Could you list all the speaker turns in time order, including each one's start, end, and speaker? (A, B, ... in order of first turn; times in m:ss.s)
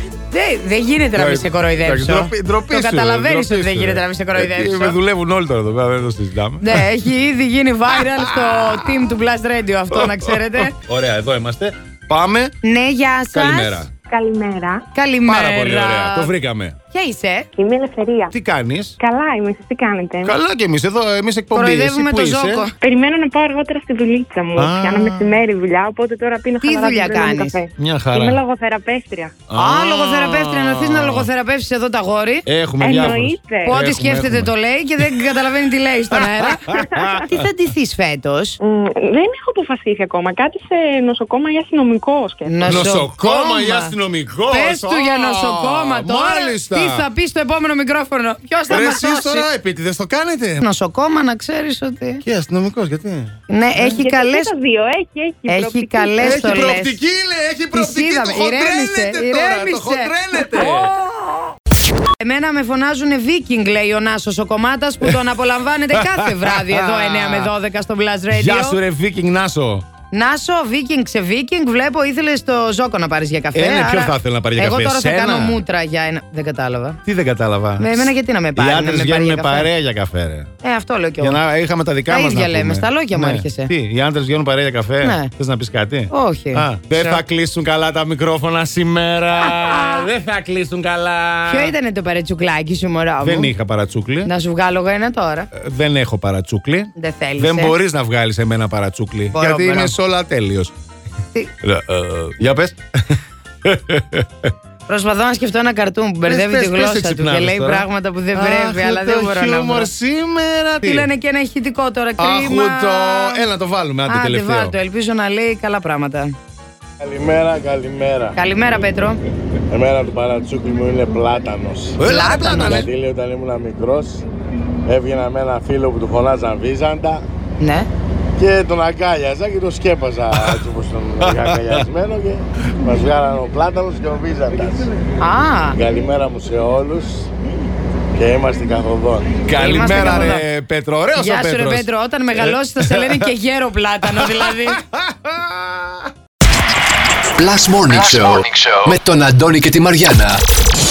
0:00.3-0:05.0 A
0:01.2-0:06.9 B
0:06.6-0:10.8 A
0:07.9-0:09.1 B
0:09.9-0:12.6 B
0:12.6-0:13.8 A
0:13.3-0:13.9 B
0:14.1-0:14.8 C
0:14.9-0:16.3 A
0:15.3-0:16.8 B
0:16.9-0:17.5 A
0:17.6-0:18.3 C
0:18.3-0:19.0 B
0:19.0-0:20.4 C
0:20.2-0:22.7 B
0:21.5-0:22.7 A
0:22.8-0:29.4 C
0:24.6-0:25.4 B
0:26.6-0:27.6 A
0:27.8-0:28.4 B
0:29.5-0:31.3 B
0:29.6-0:32.4 A
0:32.5-0:35.2 B
0:32.8-0:33.8 C
0:33.7-0:38.6 A
0:36.1-0:37.4 B
0:38.6-0:42.9 C
0:42.4-0:43.9 A
0:42.6-0:47.1 B
0:44.5-0:49.5 A
0:48.7-0:50.7 B
0:50.6-0:52.2 A
0:52.2-0:53.4 B
0:53.5-0:54.5 A
0:53.8-0:56.7 C
0:55.5-0:57.0 A
0:56.2-1:01.0 B
0:57.7-1:01.1 A
1:02.2-1:08.8 A
1:06.0-1:07.5 B
1:08.3-1:09.9 B
1:10.1-1:17.0 A
1:13.5-1:15.6 B
1:17.1-1:20.5 B
1:17.8-1:19.7 A
1:20.6-1:21.4 A
1:21.2-1:31.7 B
1:22.1-1:23.7 A
1:25.0-1:25.3 A
1:26.1-1:27.2 A
1:29.5-1:30.0 A
1:31.5-1:33.5 A
1:33.2-1:34.3 B
1:34.2-1:35.5 A
1:35.5-1:40.7 B
1:37.0-1:37.7 A
1:39.3-1:40.0 A
1:41.6-1:44.5 B
1:44.9-1:49.9 A
1:46.3-1:51.1 B
1:50.8-1:53.4 A
1:52.2-1:54.8 B
1:54.1-1:56.3 A
1:57.0-1:58.4 D
1:58.4-1:59.2 A
1:59.7-2:02.0 D
2:02.0-2:02.9 B
2:02.0-2:02.9 A
2:02.7-2:04.2 D
2:04.8-2:07.2 D
2:07.6-2:07.9 A
2:08.4-2:14.9 D
2:10.3-2:10.7 B
2:11.2-2:11.8 B
2:15.2-2:15.8 A
2:15.8-2:17.3 D
2:18.2-2:19.4 D
2:19.4-2:23.3 B
2:19.5-2:20.5 A
2:21.1-2:24.8 A
2:24.0-2:26.1 B
2:27.4-2:30.4 E